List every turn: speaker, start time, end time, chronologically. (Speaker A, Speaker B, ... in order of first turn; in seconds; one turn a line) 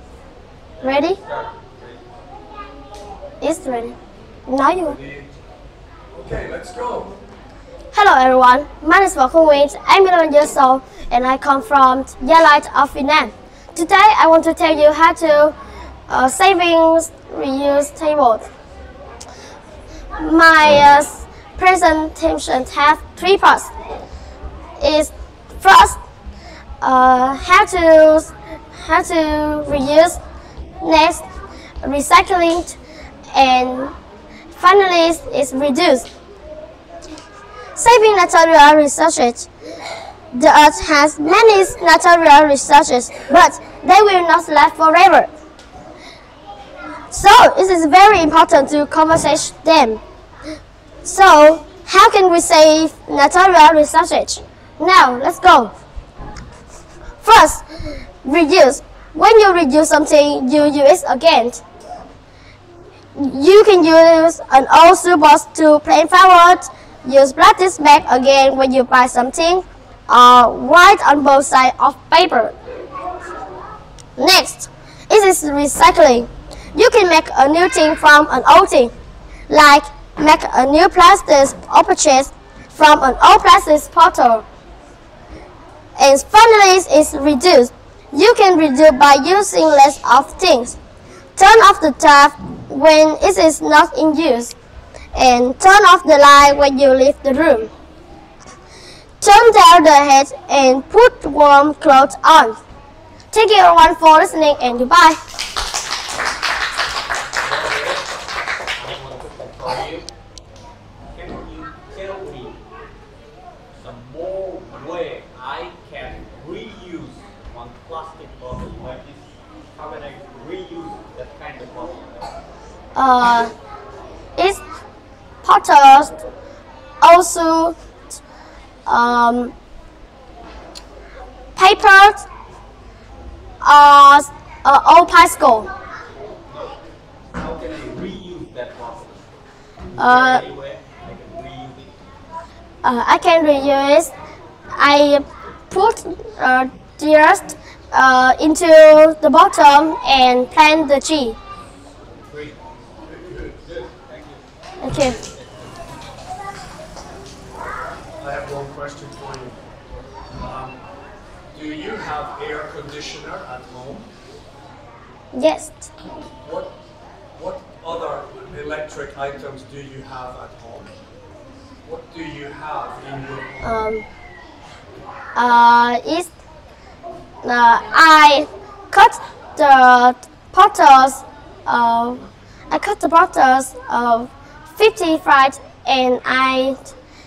Speaker A: 0.8-2.0
Speaker B: 0.8-1.2
Speaker B: 3.4-4.0
Speaker B: 4.5-5.0
Speaker C: 4.8-5.3
Speaker C: 6.1-7.2
Speaker B: 7.9-15.6
Speaker B: 16.1-18.5
Speaker B: 20.1-23.7
Speaker B: 24.8-26.0
Speaker B: 26.8-30.2
Speaker B: 30.8-31.2
Speaker B: 31.8-32.8
Speaker B: 33.3-33.9
Speaker B: 34.5-36.1
Speaker B: 37.7-39.5
Speaker B: 40.3-45.3
Speaker B: 47.1-50.0
Speaker B: 51.0-55.7
Speaker B: 57.2-61.6
Speaker B: 63.1-72.5
Speaker B: 74.2-78.9
Speaker B: 79.5-84.4
Speaker B: 86.0-90.8
Speaker B: 91.3-94.5
Speaker B: 95.1-97.7
Speaker B: 99.2-102.6
Speaker B: 103.3-105.2
Speaker A: 107.4-108.1
Speaker A: 108.8-110.1
Speaker A: 111.1-112.6
Speaker A: 113.8-122.3
Speaker B: 122.9-123.5
Speaker B: 125.4-126.2
Speaker B: 127.0-127.8
Speaker B: 128.8-129.5
Speaker B: 131.6-132.2
Speaker B: 133.6-135.7
Speaker A: 136.5-136.7
Speaker A: 137.3-139.2
Speaker A: 139.9-141.9
Speaker B: 139.9-140.4
Speaker B: 142.8-144.1
Speaker B: 144.8-151.4
Speaker A: 152.3-152.6
Speaker C: 153.1-153.7
Speaker A: 153.7-154.4
Speaker B: 154.8-155.2
Speaker A: 154.9-155.8
Speaker C: 158.2-159.6
Speaker C: 160.3-160.8
Speaker C: 161.5-164.1
Speaker B: 165.3-165.9
Speaker C: 166.4-166.8
Speaker C: 167.3-170.9
Speaker C: 171.8-173.7
Speaker B: 173.6-174.0
Speaker B: 175.3-176.3
Speaker B: 177.4-186.8